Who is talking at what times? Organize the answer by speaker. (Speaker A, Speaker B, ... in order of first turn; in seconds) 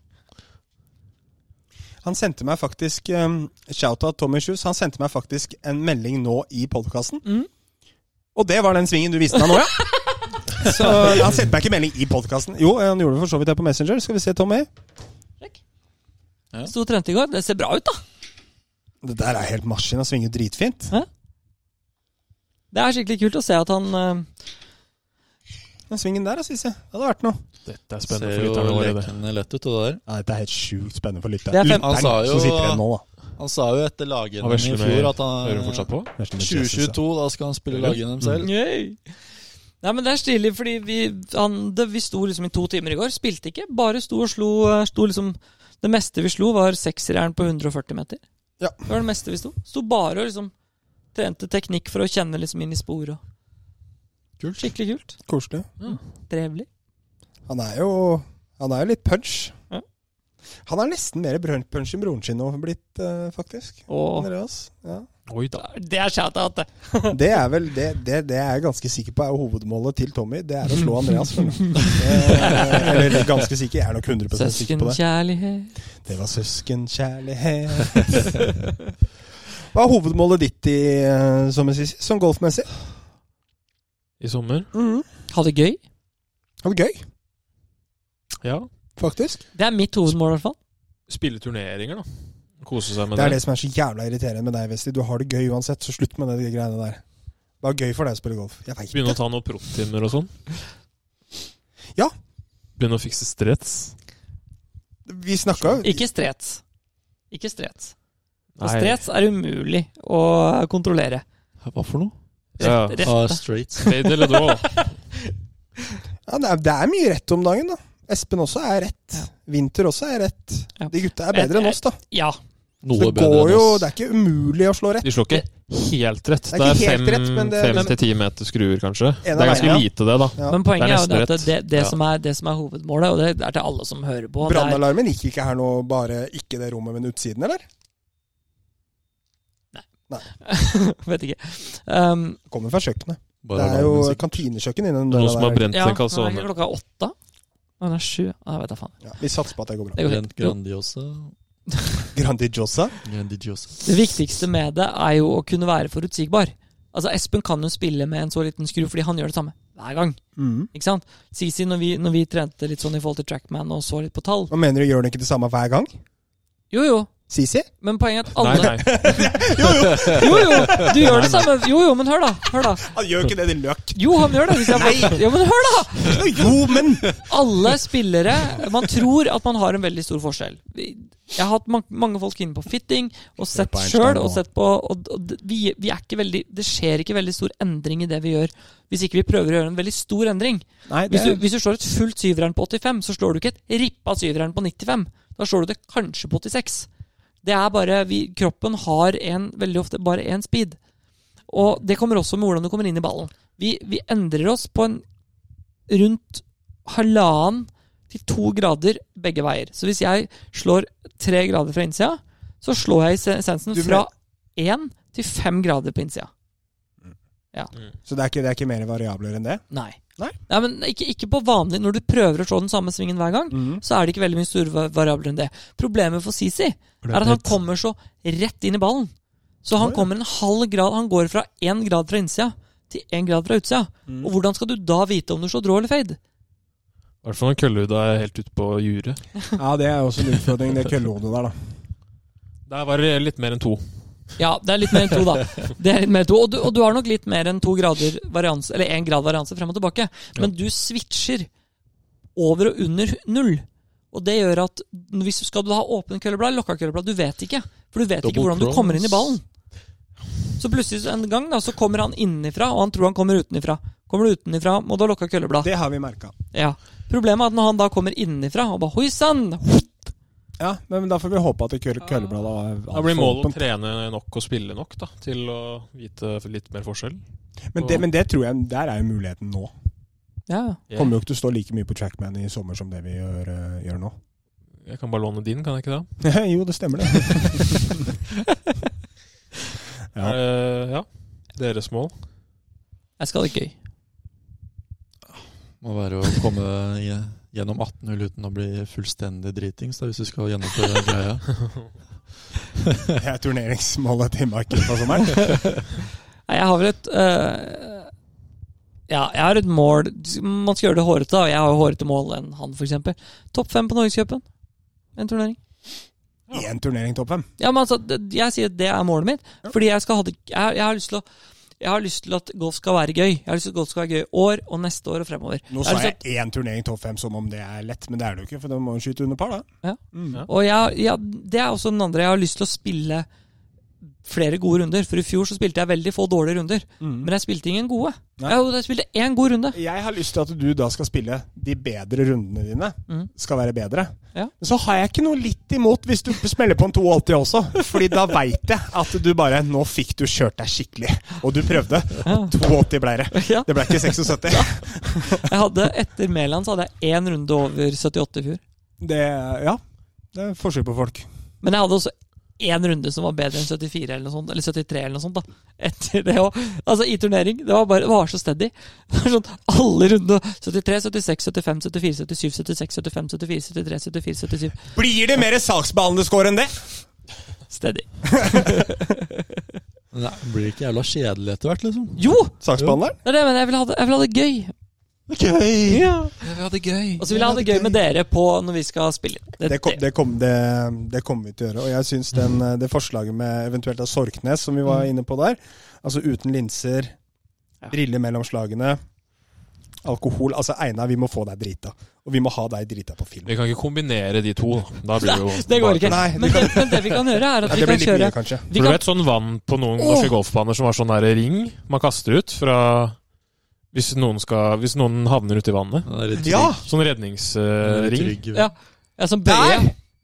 Speaker A: 2.0-7.2, 8.3-9.9, 10.5-14.7, 19.0-20.9, 25.9-27.4, 30.1-33.0, 36.2-37.0, 55.3-55.7, 57.5-59.5, 60.6-65.1, 67.1-75.0, 76.0-78.5, 79.7-82.7, 84.7-85.0, 86.6-87.0, 89.0-89.4, 93.1-97.0, 97.6-99.2, 105.1-106.0, 116.3-122.0, 122.9-125.4, 126.5-127.9, 129.2-130.6, 134.4-137.6, 142.5-145.7, 149.0-150.1, 152.1-153.0, 160.4-160.7, 164.5-165.9, 167.3-167.7, 168.5-171.4, 172.7-175.3, 176.0-177.2, 183.5-184.4, 190.9-191.4, 213.7-214.1, 218.0-219.6, 223.5-223.8, 227.0-227.6, 229.8-230.1, 234.1-234.3, 239.6-241.5, 265.6-266.3, 270.6-273.6, 277.7-279.7, 280.9-284.1, 286.2-288.1, 303.1-305.7, 316.5-317.4, 325.7-330.4, 337.0-337.3, 339.7-355.5, 359.0-359.8, 360.3-361.2, 374.9-376.9, 378.2-379.0, 382.6-383.1, 385.3-386.0, 387.2-388.0, 389.6-397.1, 397.9-399.0, 400.0-403.5, 406.0-408.7, 416.4-416.8, 419.4-419.9
Speaker B: 9.3-11.3, 16.6-18.0, 22.7-24.3, 31.5-31.9, 38.4-39.0, 39.8-48.2, 48.8-50.5, 51.1-53.2, 54.6-55.2, 55.8-56.7, 63.9-64.3, 65.5-67.2, 71.7-73.0, 74.3-75.7, 85.3-85.8, 89.5-90.6, 105.8-106.6, 107.3-107.9, 108.6-111.2, 112.6-115.3, 120.8-122.4, 129.4-129.8, 130.4-134.8, 139.7-142.4, 145.7-147.1, 147.8-149.0, 149.9-150.6, 153.8-160.2, 160.7-164.5, 166.7-167.1, 167.8-169.3, 169.9-172.9, 173.9-176.6, 177.1-196.9, 197.4-200.8, 201.5-205.0, 205.9-216.3, 219.7-229.1, 229.6-236.2, 244.4-251.5, 252.3-259.4, 260.6-265.7, 266.5-270.1, 280.5-280.8, 293.2-293.7, 306.5-308.1, 309.1-314.4, 315.1-315.6, 317.6-321.2, 321.8-326.2, 329.8-333.3, 334.2-339.8, 352.2-352.6, 353.3-358.6, 361.6-374.8, 377.7-379.2, 382.2-382.6, 383.2-384.7, 385.9-386.3, 387.2-390.0, 405.2-409.0, 418.5-419.9
Speaker C: 27.6-29.1, 34.4-36.1, 37.7-38.0, 65.3-65.6, 84.2-84.7, 88.4-88.7, 91.1-93.4, 98.9-100.3, 102.8-103.9, 108.6-109.0, 112.6-113.2, 113.8-114.8, 125.0-130.4, 145.1-146.5, 168.4-169.4, 237.2-239.2, 242.7-243.8, 272.9-277.2, 277.8-278.0, 284.8-286.2, 290.2-292.1, 386.4-387.2, 403.4-406.6, 408.7-413.2, 413.9-418.4
Speaker D: 28.1-30.0, 31.8-32.8, 33.4-38.5, 54.4-54.7, 111.6-112.1, 113.0-114.0, 122.8-123.9, 130.7-132.0, 143.4-144.4, 150.0-151.3, 153.0-153.9, 258.2-259.4, 295.3-301.9, 380.1-382.2, 385.3-386.0, 416.1-416.9, 417.8-418.7